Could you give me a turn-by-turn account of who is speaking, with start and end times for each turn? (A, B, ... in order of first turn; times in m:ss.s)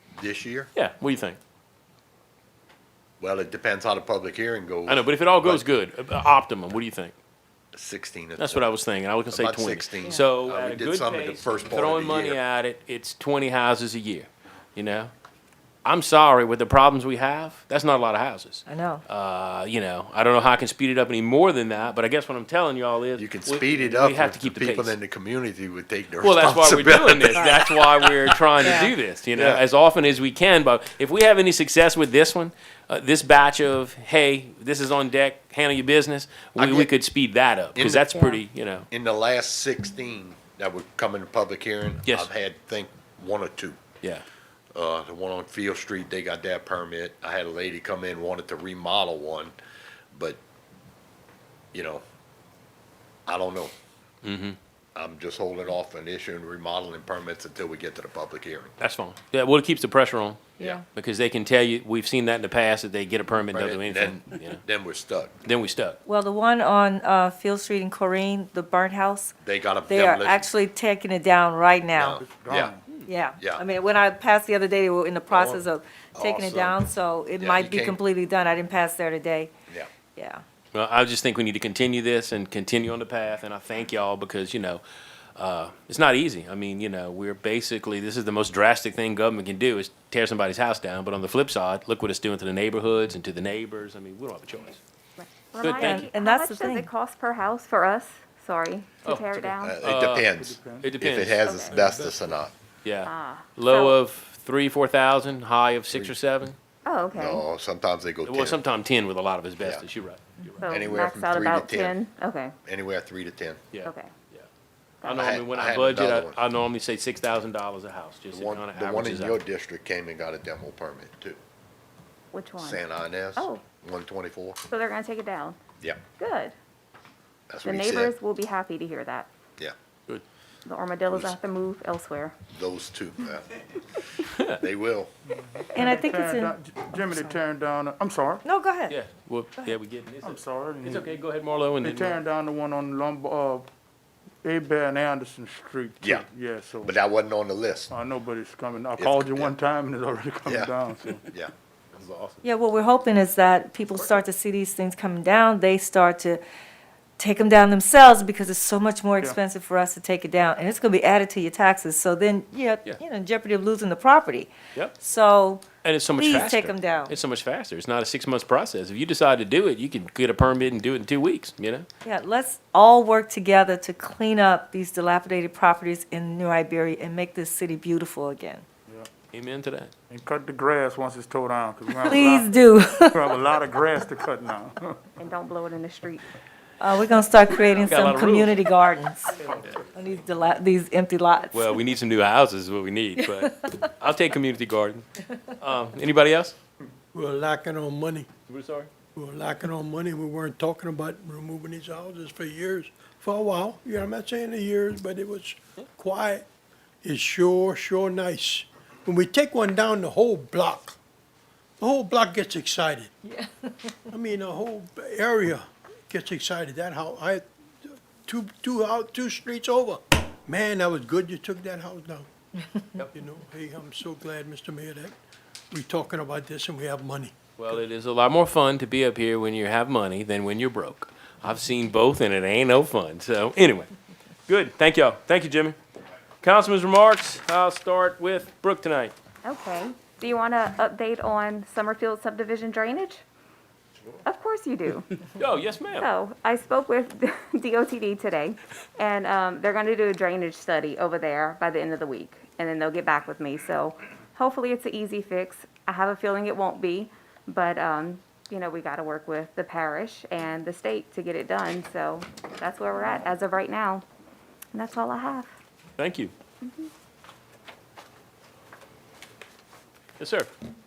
0:00.2-0:00.7 A
0:00.7-0:01.4 B
0:03.2-0:05.6 A
0:04.9-0:07.1 B
0:07.7-0:08.7 A
0:08.4-0:15.1 B
0:09.3-0:12.4 A
0:15.8-0:24.9 B
0:18.7-0:19.0 C
0:23.2-0:28.8 A
0:26.2-0:38.9 B
0:29.3-0:29.6 A
0:36.6-0:36.9 A
0:37.8-0:38.3 A
0:38.9-0:43.8 A
0:42.0-0:42.3 B
0:44.7-0:49.5 A
0:50.1-0:50.4 A
0:51.7-0:52.0 A
0:53.3-0:53.7 A
0:54.2-0:54.6 B
0:54.9-0:58.7 A
0:58.8-1:04.6 B
1:03.5-1:05.3 A
1:05.4-1:06.0 B
1:06.0-1:09.4 C
1:09.4-1:10.5 A
1:09.9-1:12.1 C
1:11.9-1:12.7 A
1:12.1-1:12.8 D
1:13.0-1:19.5 C
1:13.4-1:13.6 A
1:15.3-1:15.6 A
1:16.1-1:16.8 A
1:17.4-1:18.0 A
1:20.1-1:20.4 C
1:20.7-1:24.8 B
1:25.4-1:34.8 B
1:35.2-1:39.8 E
1:35.6-1:36.1 B
1:35.8-1:36.8 C
1:39.0-1:41.4 B
1:39.6-1:42.5 A
1:40.3-1:42.4 D
1:41.4-1:41.8 E
1:42.8-1:46.6 B
1:43.0-1:44.0 E
1:46.8-1:47.4 E
1:47.1-1:48.6 A
1:48.2-1:50.6 B
1:50.6-1:52.5 E
1:50.7-1:52.0 A
1:52.6-1:53.6 A
1:53.7-1:54.5 B
1:53.8-1:54.1 E
1:55.0-1:55.3 E
1:55.0-1:59.4 B
1:55.0-1:56.4 A
1:58.3-2:01.4 A
2:02.3-2:02.8 E
2:02.6-2:04.6 A
2:03.4-2:03.6 E
2:04.7-2:05.6 E
2:06.2-2:06.5 E
2:07.5-2:08.1 A
2:07.6-2:09.3 E
2:10.6-2:12.4 E
2:11.1-2:11.3 A
2:12.5-2:14.0 A
2:14.2-2:14.6 B
2:14.6-2:15.1 A
2:15.3-2:18.4 D
2:15.9-2:16.5 C
2:18.4-2:18.9 C
2:18.9-2:22.2 B
2:20.2-2:21.1 D
2:21.8-2:23.7 D
2:24.4-2:26.9 D
2:26.0-2:26.2 A
2:26.8-2:27.9 A
2:27.9-2:31.2 D
2:29.0-2:29.5 A
2:30.4-2:31.5 A
2:31.9-2:32.4 B
2:32.4-2:36.4 C
2:33.9-2:34.2 B
2:37.2-2:47.2 C
2:45.8-2:51.9 B
2:52.0-2:58.7 C
2:59.3-2:59.9 B
3:00.1-3:05.1 D
3:02.1-3:03.3 C
3:05.2-3:06.3 E
3:06.8-3:09.4 C
3:07.8-3:08.6 B
3:09.3-3:10.1 D
3:09.9-3:11.8 C
3:11.5-3:16.6 B
3:13.2-3:13.6 C
3:17.1-3:18.3 F
3:18.5-3:18.9 B
3:19.1-3:26.4 F
3:27.0-3:31.0 F
3:31.8-3:33.1 F
3:33.3-3:33.7 C
3:33.9-3:42.3 F
3:42.9-3:45.1 F
3:45.7-3:47.3 F
3:47.6-3:53.9 B
3:54.5-3:55.8 B
3:56.4-3:59.1 B
3:59.4-4:03.2 E
4:04.2-4:05.2 E
4:05.4-4:06.1 B
4:06.0-4:24.0 E
4:24.7-4:25.5 E
4:26.0-4:26.3 B
4:26.6-4:26.9 E
4:30.2-4:30.5 B